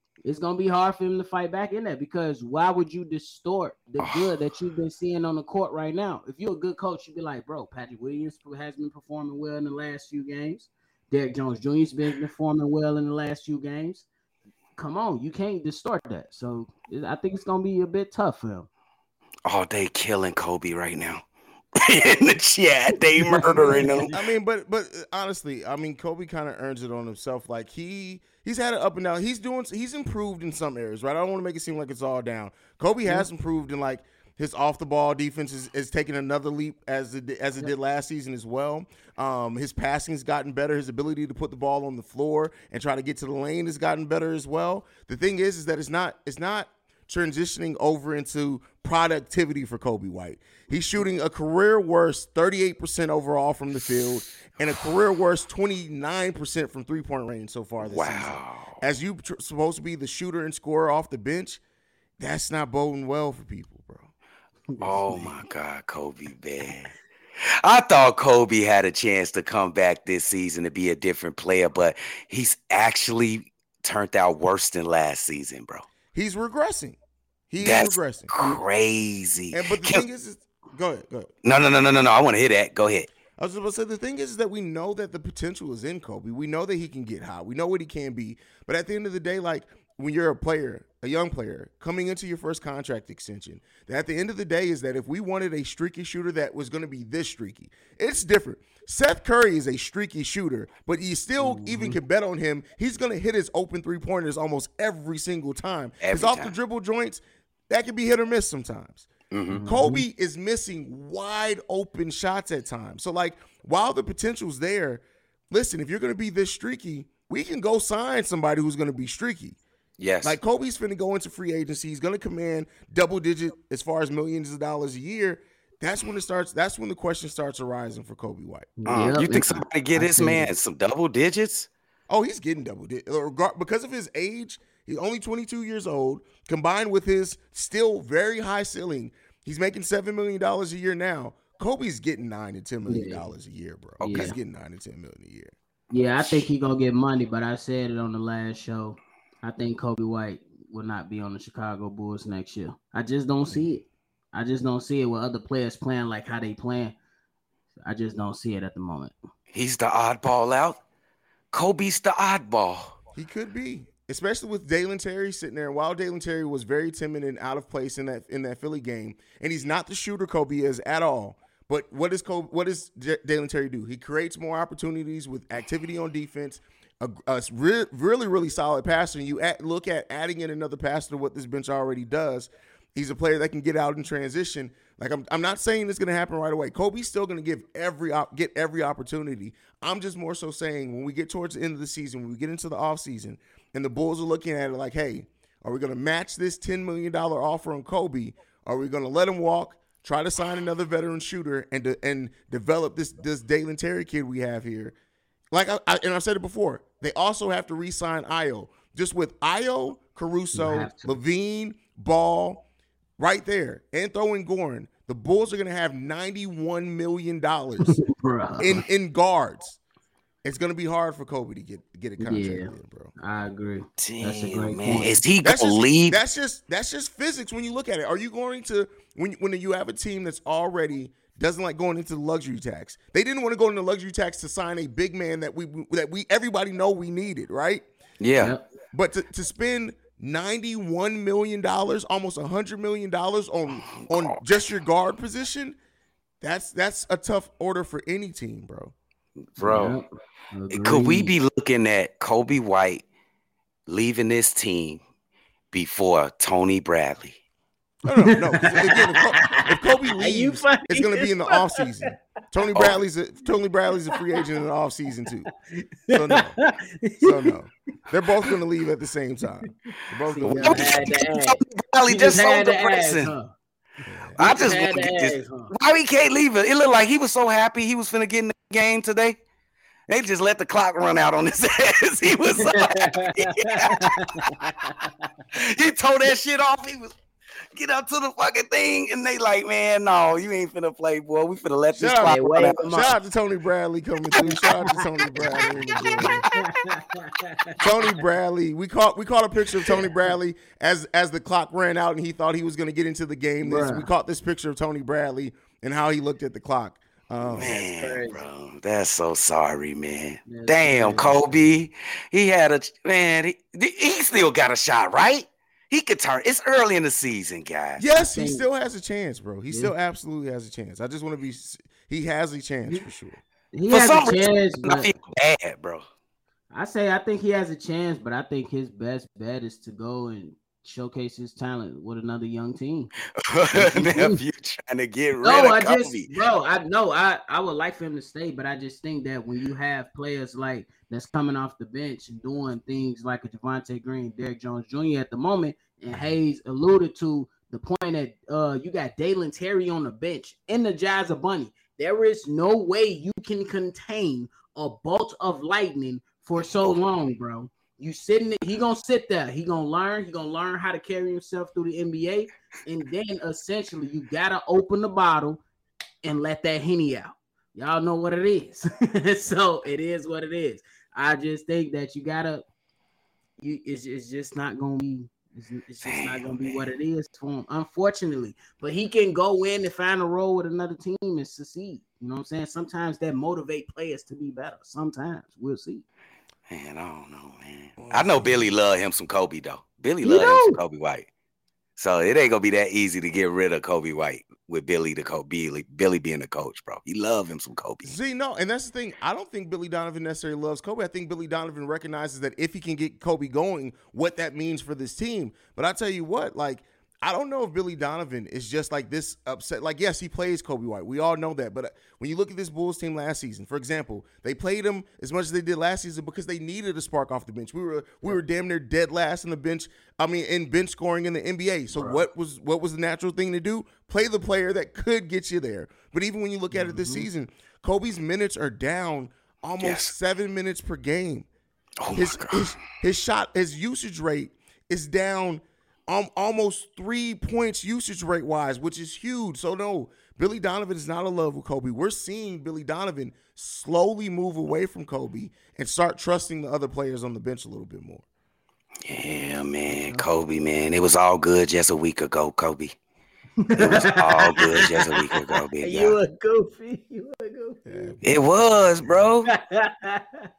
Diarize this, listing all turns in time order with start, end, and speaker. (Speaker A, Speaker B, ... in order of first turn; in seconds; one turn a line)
Speaker A: 0.2-14.1
Speaker B: 4.0-4.3
Speaker A: 14.8-18.7
Speaker B: 19.4-21.2
Speaker B: 21.8-24.1
Speaker A: 23.2-24.2
Speaker C: 23.7-61.6
Speaker B: 57.8-58.8
Speaker C: 62.2-64.1
Speaker A: 64.7-65.3
Speaker B: 64.8-66.9
Speaker B: 67.6-75.8
Speaker C: 76.1-77.0
Speaker C: 77.5-78.3
Speaker B: 77.6-80.0
Speaker C: 79.5-81.3
Speaker B: 81.4-83.1
Speaker C: 83.4-109.1
Speaker A: 101.4-102.0
Speaker B: 106.0-106.5
Speaker B: 109.3-109.6
Speaker A: 109.5-110.0
Speaker C: 109.6-119.6
Speaker B: 120.0-120.4
Speaker C: 120.2-128.8
Speaker A: 128.8-130.5
Speaker B: 128.9-131.7
Speaker C: 132.1-145.5
Speaker A: 142.8-143.2
Speaker B: 144.0-144.3
Speaker A: 144.0-144.3
Speaker A: 145.9-156.9
Speaker A: 157.8-159.1
Speaker B: 159.5-160.8
Speaker B: 161.5-162.9
Speaker C: 163.1-204.9
Speaker C: 205.5-212.6
Speaker A: 210.5-211.1
Speaker C: 213.2-218.0
Speaker A: 217.8-218.8
Speaker C: 218.6-219.8
Speaker C: 220.4-223.1
Speaker A: 222.2-225.2
Speaker B: 224.0-226.2
Speaker C: 225.4-237.8
Speaker B: 238.2-238.5
Speaker A: 238.4-238.7
Speaker C: 238.9-245.8
Speaker B: 243.8-244.4
Speaker C: 246.4-248.9
Speaker B: 249.5-250.0
Speaker A: 249.6-251.3
Speaker B: 250.7-253.0
Speaker B: 253.9-255.0
Speaker B: 255.7-257.4
Speaker C: 258.0-265.5
Speaker A: 258.2-261.9
Speaker A: 265.8-267.5
Speaker C: 266.1-266.5
Speaker C: 267.2-271.0
Speaker A: 270.3-273.5
Speaker B: 270.4-273.3
Speaker C: 274.1-274.4
Speaker A: 274.3-275.7
Speaker B: 274.4-279.4
Speaker B: 280.1-284.7
Speaker A: 282.6-285.1
Speaker B: 285.5-287.1
Speaker B: 287.7-292.9
Speaker C: 291.9-296.4
Speaker A: 292.2-293.1
Speaker A: 294.4-297.8
Speaker C: 297.8-307.8
Speaker A: 299.8-300.1
Speaker A: 303.6-304.1
Speaker B: 307.4-318.0
Speaker A: 308.0-308.4
Speaker A: 310.5-311.4
Speaker C: 318.0-323.4
Speaker A: 318.1-318.6
Speaker A: 323.7-325.2
Speaker B: 323.9-326.0
Speaker A: 326.7-333.1
Speaker B: 333.4-336.3
Speaker A: 333.8-334.4
Speaker A: 335.4-365.6
Speaker B: 356.6-357.0
Speaker A: 366.2-372.6
Speaker A: 373.6-386.0
Speaker B: 376.0-376.9
Speaker B: 386.7-391.3
Speaker C: 388.0-388.7
Speaker A: 390.2-390.8
Speaker B: 392.0-398.1
Speaker C: 398.0-431.5
Speaker A: 421.9-422.2
Speaker A: 426.7-427.2
Speaker B: 429.8-430.1
Speaker B: 432.0-432.8
Speaker C: 432.1-448.2
Speaker B: 449.0-452.9
Speaker A: 449.9-450.2
Speaker A: 453.6-458.1
Speaker B: 453.8-456.2
Speaker C: 457.8-459.3
Speaker B: 458.2-459.5
Speaker A: 459.5-460.5